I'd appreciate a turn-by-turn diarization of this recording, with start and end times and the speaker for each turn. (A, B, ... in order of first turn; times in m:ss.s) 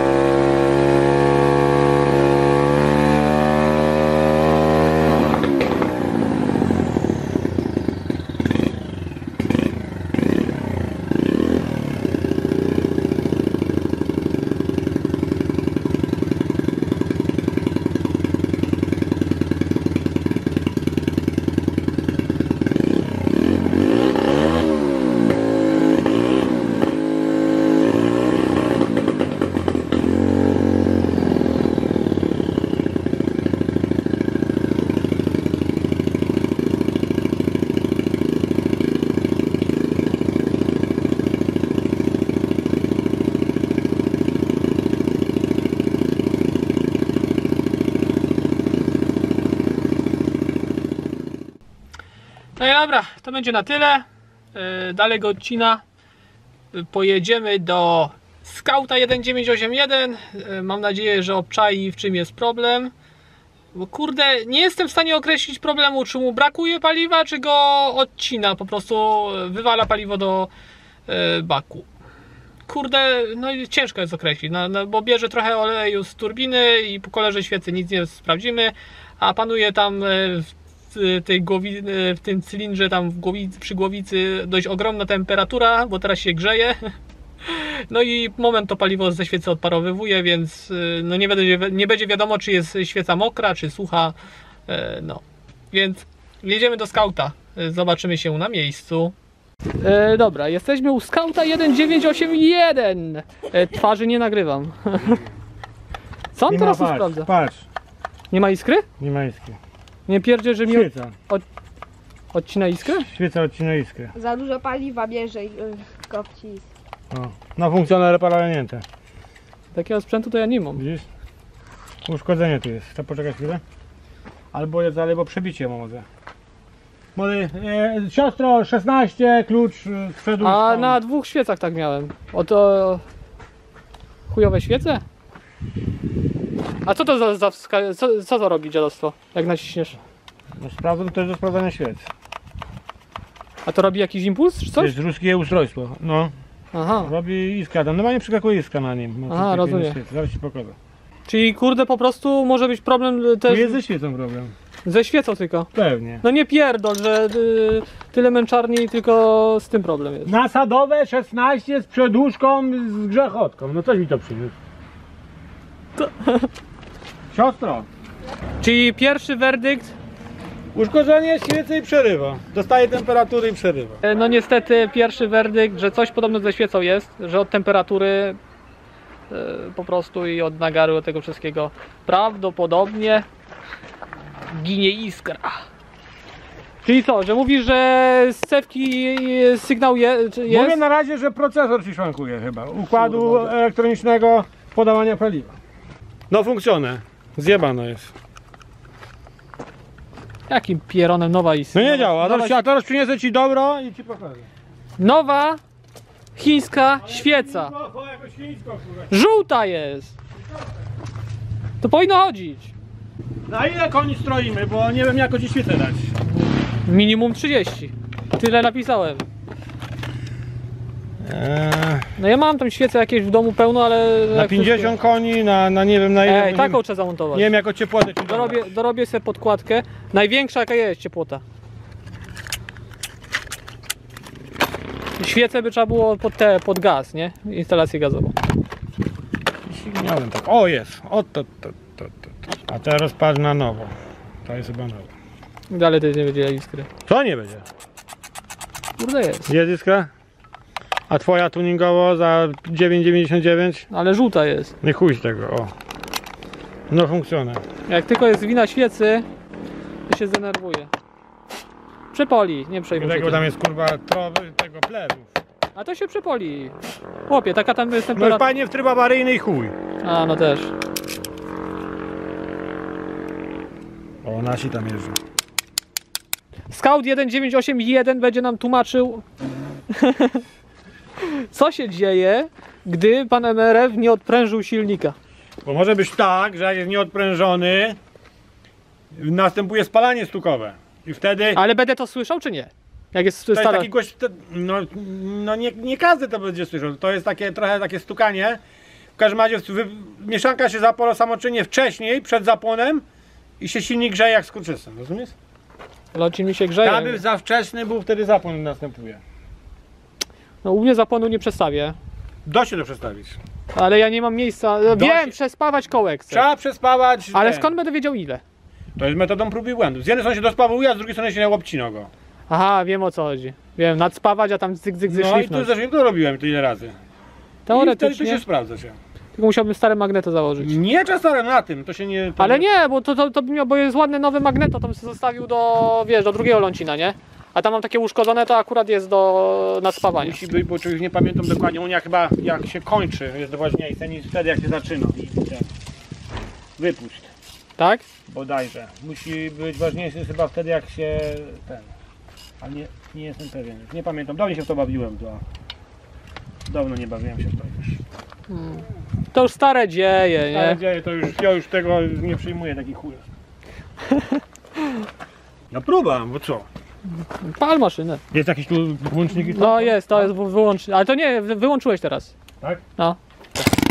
0:52.6-0:55.8 A
0:56.7-1:02.9 A
1:03.7-1:10.5 A
1:11.1-1:11.9 A
1:12.7-1:34.2 A
1:34.7-1:39.2 A
1:39.8-1:45.2 A
1:46.3-1:47.3 A
1:46.5-1:47.7 B
1:48.3-1:48.8 A
1:49.0-1:49.6 B
1:50.1-1:51.4 A
1:50.7-1:51.2 B
1:52.3-1:53.1 A
1:53.1-1:54.1 B
1:54.1-1:56.7 C
1:57.1-1:58.8 B
1:59.7-2:00.8 A
2:00.8-2:01.1 B
2:02.0-2:03.6 B
2:04.5-2:06.1 B
2:07.2-2:11.0 B
2:10.4-2:13.0 A
2:14.3-2:15.0 A
2:16.8-2:20.0 A
2:20.6-2:22.1 B
2:23.7-2:24.9 A
2:24.8-2:26.3 B
2:26.7-2:27.1 A
2:27.0-2:30.8 B
2:29.3-2:30.0 A
2:31.3-2:33.8 A
2:33.5-2:34.5 B
2:34.8-2:35.7 A
2:35.8-2:36.2 B
2:36.2-2:40.3 A
2:40.3-2:44.5 B
2:46.0-2:46.5 A
2:47.3-2:47.9 B
2:48.6-2:50.0 A
2:50.8-2:54.0 B
2:54.0-2:58.4 A
2:59.3-3:03.3 A
3:04.5-3:05.6 A
3:06.8-3:10.8 A
3:10.5-3:15.6 B
3:13.0-3:13.5 A
3:16.3-3:18.1 B
3:20.5-3:22.6 A
3:21.7-3:24.5 B
3:25.0-3:25.6 A
3:26.4-3:27.7 A
3:27.0-3:29.1 B
3:29.1-3:30.2 A
3:31.8-3:32.7 A
3:33.5-3:36.1 B
3:36.8-3:39.2 A
3:41.2-3:42.1 B
3:42.2-3:44.9 A
3:44.3-3:46.8 B
3:46.2-3:47.5 A
3:47.3-3:48.7 B
3:48.3-3:51.4 A
3:55.2-3:58.4 A
3:59.6-4:05.1 B
4:05.7-4:06.9 A
4:07.1-4:07.6 B
4:09.0-4:09.5 A
4:09.5-4:10.1 B
4:11.1-4:13.8 B
4:13.9-4:14.7 A
4:14.8-4:15.7 B
4:16.9-4:17.6 B
4:17.9-4:19.2 A
4:20.1-4:20.9 A
4:22.1-4:23.4 A
4:23.0-4:25.3 B
4:25.8-4:26.8 A
4:27.3-4:28.5 A
4:28.1-4:29.8 B
4:30.0-4:30.7 A
4:34.2-4:35.2 B
4:36.7-4:39.2 A
4:39.9-4:40.4 A
4:41.2-4:45.2 A
4:45.6-4:48.0 B
4:49.1-4:51.6 B
4:51.5-4:53.9 A
4:53.5-4:58.6 B
4:59.2-5:03.0 B
5:03.6-5:05.4 B
5:06.1-5:07.2 A
5:06.8-5:09.2 B
5:10.6-5:12.0 A
5:12.4-5:13.4 B
5:13.7-5:16.4 A
5:14.9-5:15.3 B
5:16.3-5:17.7 B
5:17.3-5:18.4 A
5:19.0-5:22.1 B
5:22.5-5:25.7 A
5:25.1-5:27.0 B
5:27.6-5:28.4 A
5:27.7-5:29.0 B
5:29.4-5:30.7 A
5:30.6-5:32.6 B
5:32.4-5:40.4 A
5:40.1-5:45.7 B
5:46.8-5:47.3 B
5:47.8-5:48.0 A
5:48.3-5:51.9 B
5:52.6-5:55.4 B
5:56.7-5:58.0 B
5:58.5-6:00.8 A
6:00.5-6:03.3 B
6:04.1-6:04.4 A
6:05.7-6:06.7 B
6:07.4-6:08.2 A
6:08.3-6:10.3 B
6:09.5-6:12.4 A
6:13.0-6:13.7 A